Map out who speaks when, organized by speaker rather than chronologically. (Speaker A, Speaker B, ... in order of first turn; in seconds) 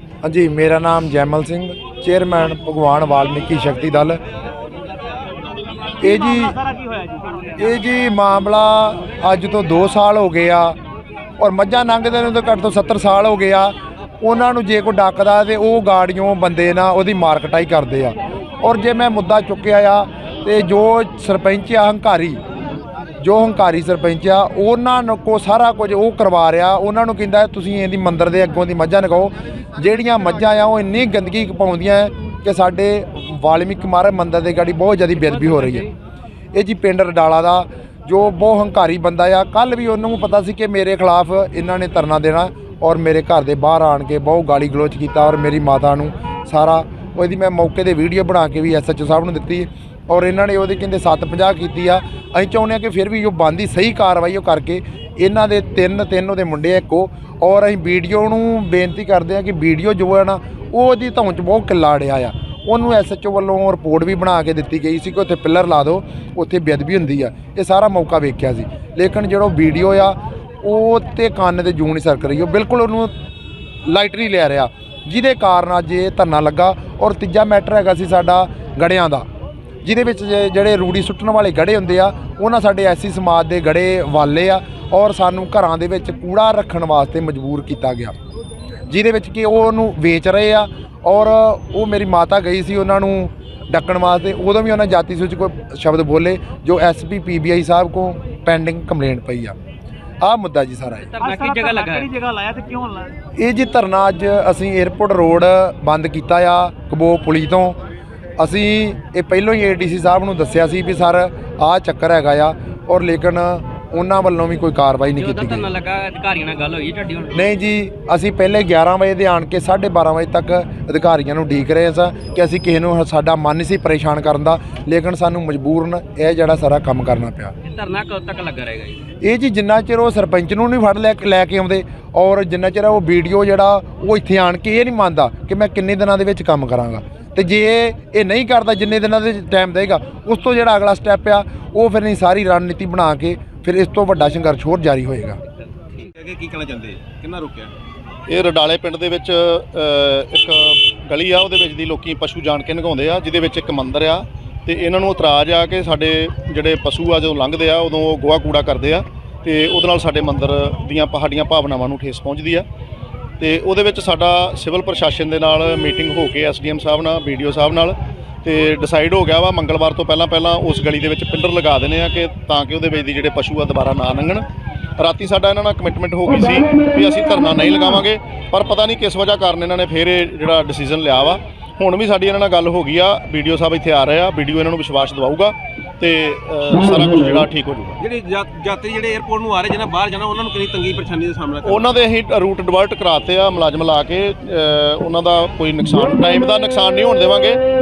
Speaker A: 0.2-4.2, 6.0-6.6, 7.5-10.8, 11.4-22.4, 23.2-35.8, 36.5-73.1, 73.9-79.2, 79.8-88.1, 88.9-99.5, 100.2-101.1, 103.3-107.8, 108.4-115.7, 117.3-127.5, 129.2-145.4
Speaker B: 6.2-7.5, 101.3-103.2
Speaker C: 35.1-35.9, 101.0-102.1, 115.1-117.5, 127.6-129.0
Speaker D: 145.9-147.7, 188.0-191.9
Speaker E: 148.3-162.7, 163.4-174.4, 175.0-188.0, 191.6-197.6